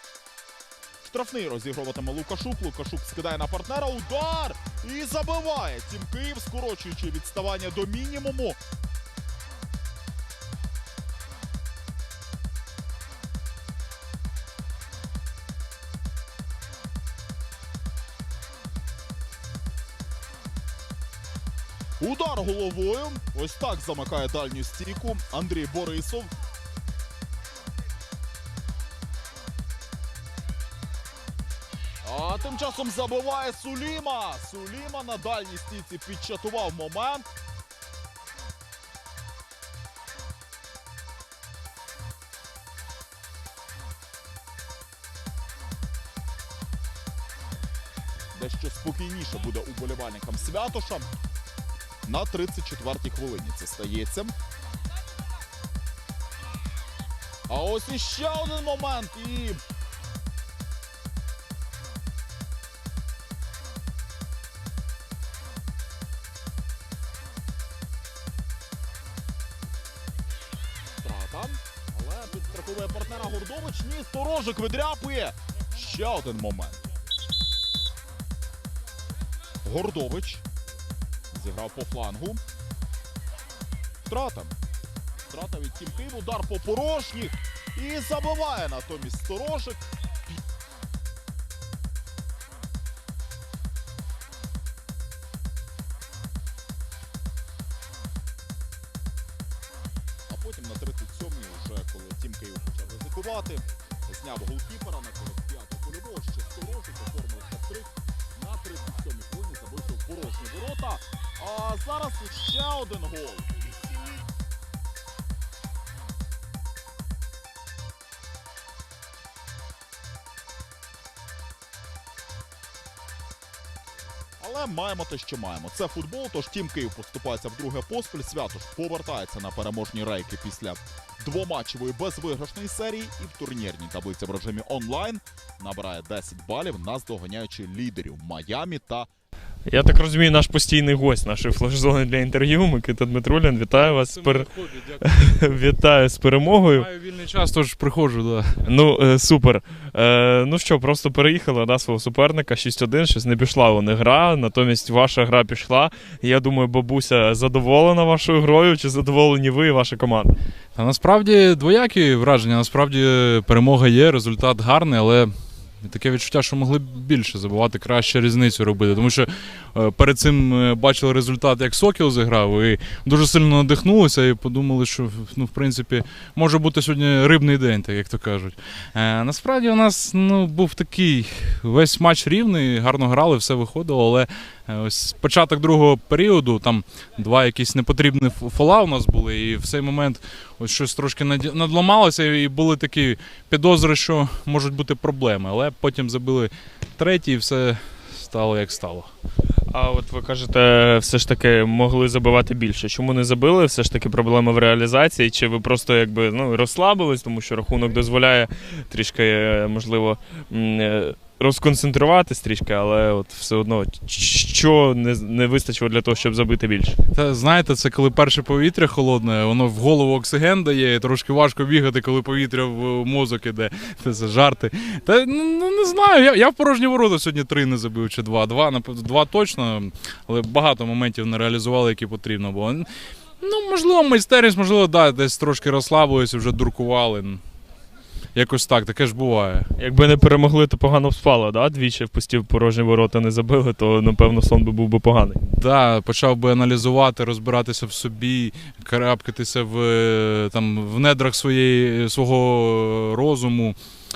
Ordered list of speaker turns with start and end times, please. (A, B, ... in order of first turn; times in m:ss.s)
0:01.0-0:08.6 A
0:22.0-0:26.3 A
0:32.0-0:37.3 A
0:48.3-0:51.1 A
0:52.0-0:54.3 A
0:57.5-0:59.6 A
1:11.0-1:16.8 A
1:19.6-1:20.4 A
1:21.3-1:22.4 A
1:24.0-1:24.6 A
1:25.3-1:30.4 A
1:40.3-1:53.5 A
2:04.4-2:19.1 A
2:19.6-2:24.5 B
2:23.8-2:25.5 C
2:25.0-2:26.9 B
2:26.5-2:28.5 C
2:28.6-2:40.4 B
2:40.8-2:45.3 C
2:45.8-3:19.1 C
3:19.7-3:37.0 B
3:37.1-3:52.9 C
3:53.4-3:57.4 C
3:58.3-3:59.7 C
3:59.8-4:05.4 B
4:05.5-4:13.8 C